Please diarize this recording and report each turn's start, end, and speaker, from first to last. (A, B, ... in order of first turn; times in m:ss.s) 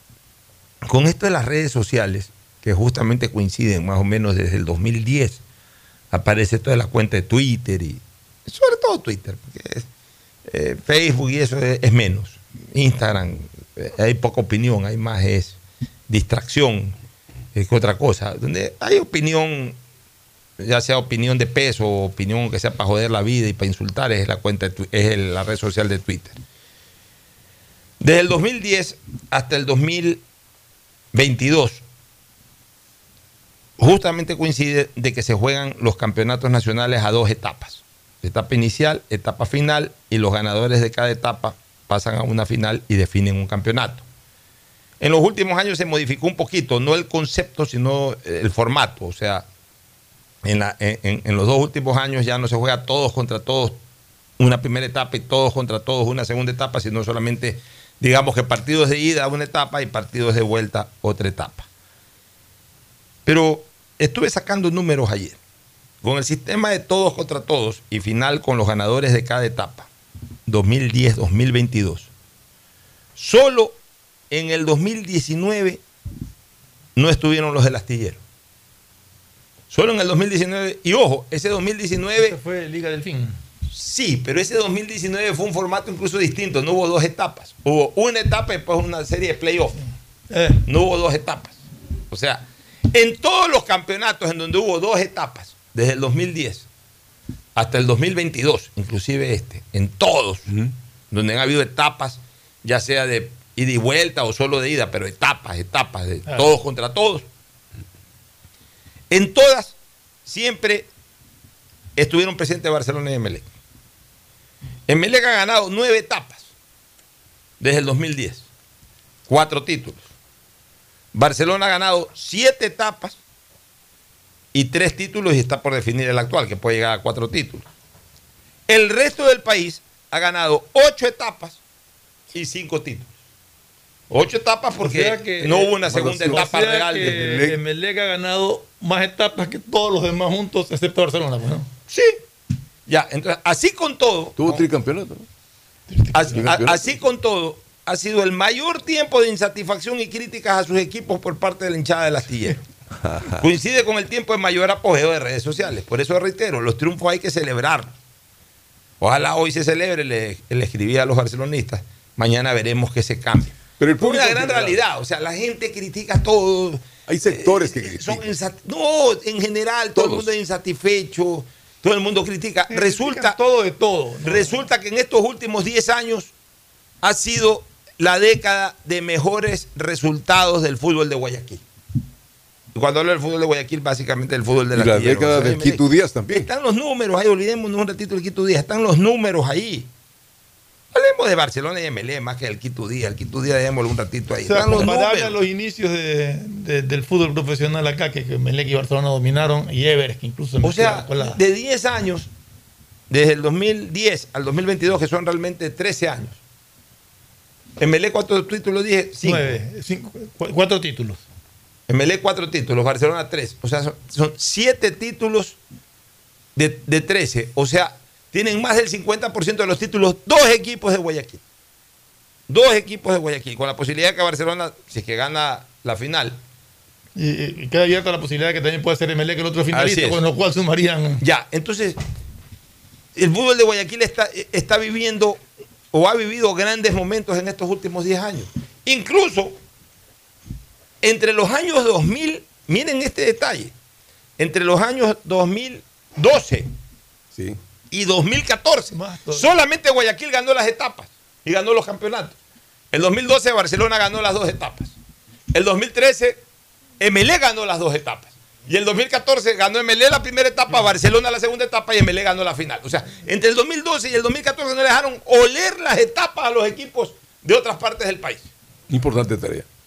0:00.8-0:05.4 A
0:06.1-0:09.9 A
0:10.4-0:17.0 A
0:17.5-0:19.8 A
0:20.6-0:26.4 A
0:28.0-0:30.2 A
0:31.1-0:31.8 A
0:33.8-0:44.0 A
0:45.0-0:49.4 A
0:50.4-0:53.8 A
0:54.4-1:01.7 A
1:03.2-1:05.4 A
1:06.0-1:09.9 A
1:10.5-1:12.1 A
1:13.2-1:13.8 A
1:14.3-1:15.8 A
1:17.0-1:18.2 A
1:19.7-1:22.4 A
1:22.2-1:23.4 B
1:23.7-1:29.8 A
1:30.3-1:30.6 B
1:30.6-1:36.6 A
1:37.6-1:40.4 A
1:41.1-1:47.2 A
1:46.2-1:46.5 B
1:49.1-1:50.9 A
1:52.0-1:53.4 A
1:54.9-1:56.5 A
1:57.6-1:58.5 A
1:59.3-2:00.0 A
2:01.1-2:03.2 A
2:04.5-2:07.6 A
2:08.7-2:11.6 A
2:12.3-2:13.1 A
2:14.1-2:17.3 A
2:14.8-2:21.7 B
2:15.8-2:17.6 C
2:21.9-2:22.2 A
2:22.9-2:24.6 A
2:24.4-2:25.2 C
2:25.9-2:26.5 B
2:26.1-2:32.6 A
2:26.3-2:27.0 C
2:33.0-2:33.4 C
2:33.4-2:37.9 A
2:39.0-2:53.4 A
2:43.8-2:44.8 C
2:47.1-2:48.3 C
2:49.9-2:50.3 C
2:52.7-2:54.6 B
2:54.2-2:56.3 A
2:57.0-3:01.6 A
3:02.7-3:09.9 A
3:04.7-3:06.5 C
3:10.9-3:15.4 A
3:14.4-3:21.4 B
3:20.6-3:22.3 A
3:23.1-3:26.4 A
3:27.8-3:29.6 A
3:29.2-3:31.2 B
3:31.9-3:35.6 A
3:36.6-3:41.4 A
3:42.5-3:46.4 A
3:47.2-3:51.2 B
3:49.7-3:50.2 A
3:51.2-3:52.0 A
3:53.1-3:59.6 A
4:01.0-4:03.7 A
4:04.4-4:06.7 A
4:07.9-4:12.4 A
4:08.9-4:09.5 B
4:12.9-4:14.9 A
4:15.5-4:16.4 A
4:17.0-4:28.5 A
4:28.9-4:29.6 C